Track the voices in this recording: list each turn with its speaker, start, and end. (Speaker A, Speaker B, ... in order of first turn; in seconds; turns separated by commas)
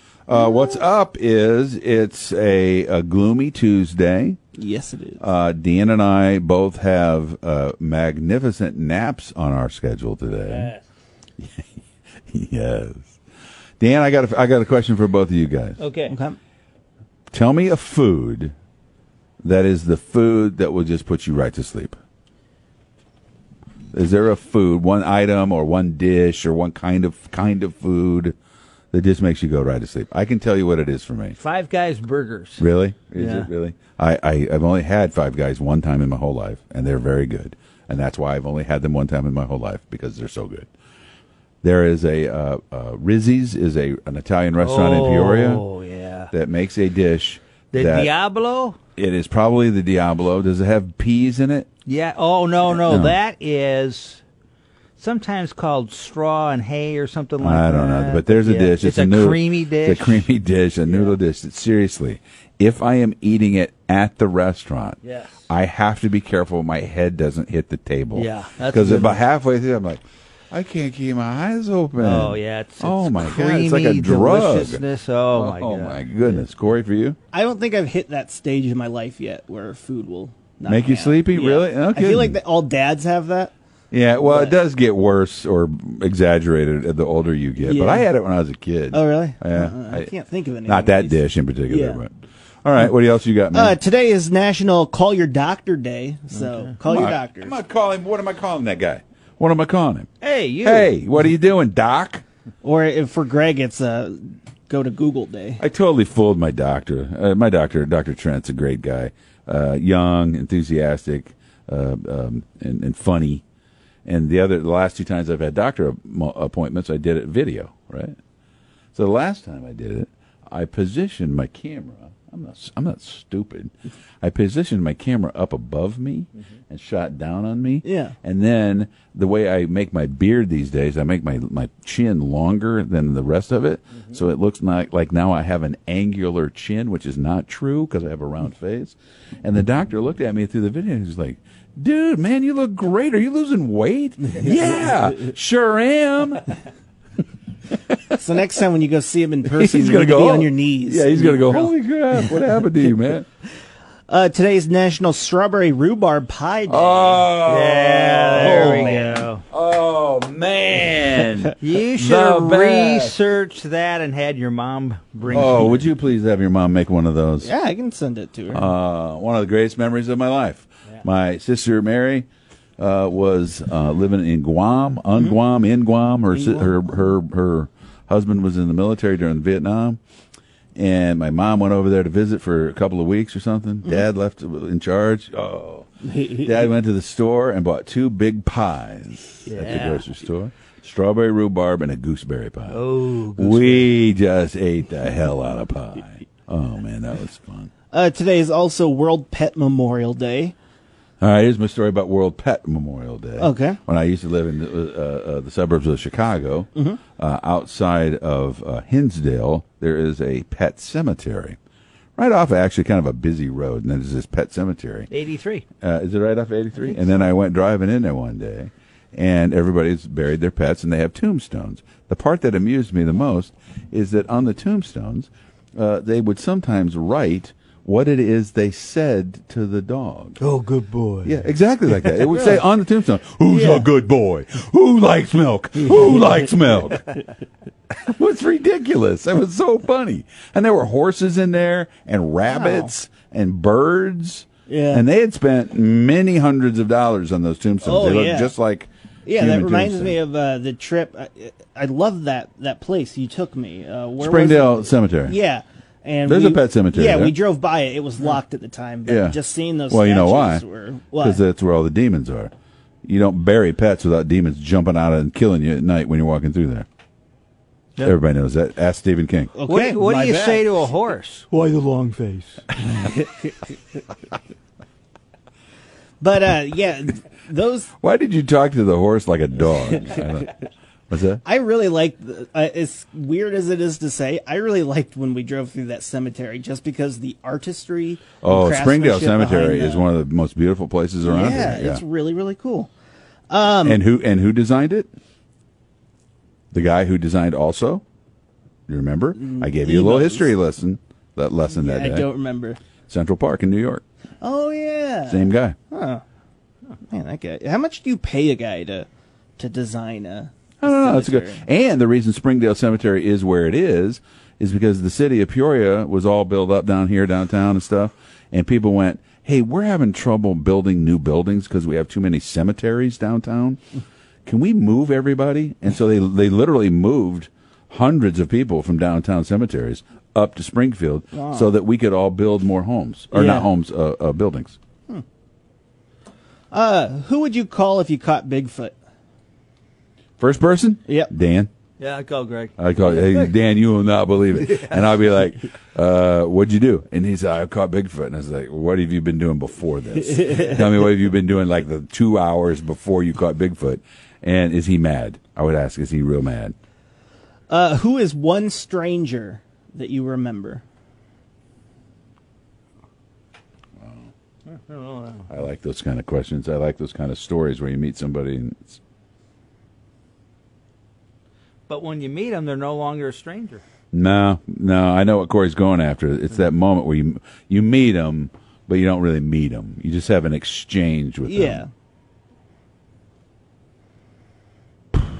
Speaker A: 0.3-4.4, Speaker B: 4.5-5.2, Speaker A: 5.2-10.7, Speaker C: 10.4-10.8, Speaker A: 12.3-13.2, Speaker A: 13.8-15.8, Speaker C: 15.8-16.1, Speaker B: 16.1-16.4, Speaker A: 17.3-18.5, Speaker A: 19.4-22.0, Speaker A: 23.9-28.3, Speaker A: 28.9-31.4, Speaker C: 31.4-32.6, Speaker A: 32.6-40.7, Speaker C: 33.1-33.5, Speaker A: 41.6-45.6, Speaker C: 44.6-46.3, Speaker A: 46.3-48.1, Speaker C: 47.7-48.8, Speaker A: 49.0-51.7, Speaker C: 51.9-54.2, Speaker A: 52.7-53.2, Speaker C: 55.0-60.3, Speaker A: 57.4-77.2, Speaker C: 60.9-61.1, Speaker C: 65.0-65.5, Speaker C: 68.1-69.2, Speaker C: 72.0-76.4, Speaker B: 77.3-83.5, Speaker A: 80.7-82.4, Speaker A: 83.9-90.1, Speaker B: 84.2-84.5, Speaker B: 87.6-88.1, Speaker B: 88.9-92.0, Speaker A: 90.7-92.1, Speaker A: 92.6-93.8, Speaker B: 93.5-97.6, Speaker C: 96.3-96.7, Speaker A: 96.8-100.1, Speaker C: 100.2-100.9, Speaker A: 100.6-102.2, Speaker B: 102.6-105.6, Speaker A: 105.6-113.4, Speaker A: 114.0-118.2, Speaker A: 118.9-146.5, Speaker B: 127.8-128.2, Speaker B: 144.5-144.9, Speaker B: 148.2-152.5, Speaker A: 149.5-153.2, Speaker B: 154.1-157.3, Speaker A: 156.7-163.2, Speaker C: 157.4-159.4, Speaker B: 158.3-159.2, Speaker C: 161.6-165.9, Speaker A: 165.3-167.5, Speaker B: 167.4-168.7, Speaker A: 168.5-180.0, Speaker B: 176.3-176.7, Speaker A: 180.8-192.8, Speaker B: 186.0-186.7, Speaker C: 189.4-190.0, Speaker C: 192.7-194.0, Speaker A: 193.3-197.7, Speaker B: 197.9-200.5, Speaker A: 201.2-211.6, Speaker B: 203.4-203.8, Speaker B: 206.7-207.0, Speaker A: 212.2-215.1, Speaker C: 215.1-215.6, Speaker A: 215.8-230.4, Speaker C: 230.4-231.4, Speaker A: 231.2-237.2, Speaker C: 232.0-232.6, Speaker B: 233.5-233.9, Speaker A: 237.9-250.2, Speaker B: 242.4-242.9, Speaker B: 244.7-245.1, Speaker B: 247.8-248.5, Speaker B: 249.2-261.4, Speaker A: 254.2-255.3, Speaker A: 256.2-257.3, Speaker A: 259.1-259.4, Speaker A: 259.9-260.6, Speaker A: 261.2-262.5, Speaker A: 263.0-266.9, Speaker A: 268.0-269.6, Speaker B: 269.6-270.7, Speaker C: 269.6-272.6, Speaker B: 273.2-273.5, Speaker B: 276.2-277.9, Speaker A: 278.0-280.6, Speaker A: 281.1-281.4, Speaker B: 281.4-290.1, Speaker A: 288.4-292.0, Speaker B: 291.2-292.9, Speaker B: 293.5-294.0, Speaker A: 293.8-295.1, Speaker A: 296.7-298.0, Speaker A: 298.9-302.3, Speaker B: 299.4-300.5, Speaker B: 301.7-302.8, Speaker A: 303.1-304.0, Speaker B: 304.4-306.2, Speaker A: 305.3-305.8, Speaker B: 307.1-309.1, Speaker B: 309.6-311.6, Speaker A: 310.8-323.8, Speaker A: 324.4-334.8, Speaker B: 331.3-331.7, Speaker B: 333.3-333.7, Speaker B: 336.7-338.9, Speaker A: 340.4-341.7, Speaker C: 342.0-343.5, Speaker A: 342.8-356.7, Speaker C: 344.6-345.1, Speaker B: 350.3-350.8, Speaker B: 357.7-360.8, Speaker A: 364.0-364.3, Speaker C: 364.9-365.4, Speaker A: 365.5-369.0, Speaker C: 371.9-373.8, Speaker A: 374.1-381.8, Speaker B: 381.4-381.9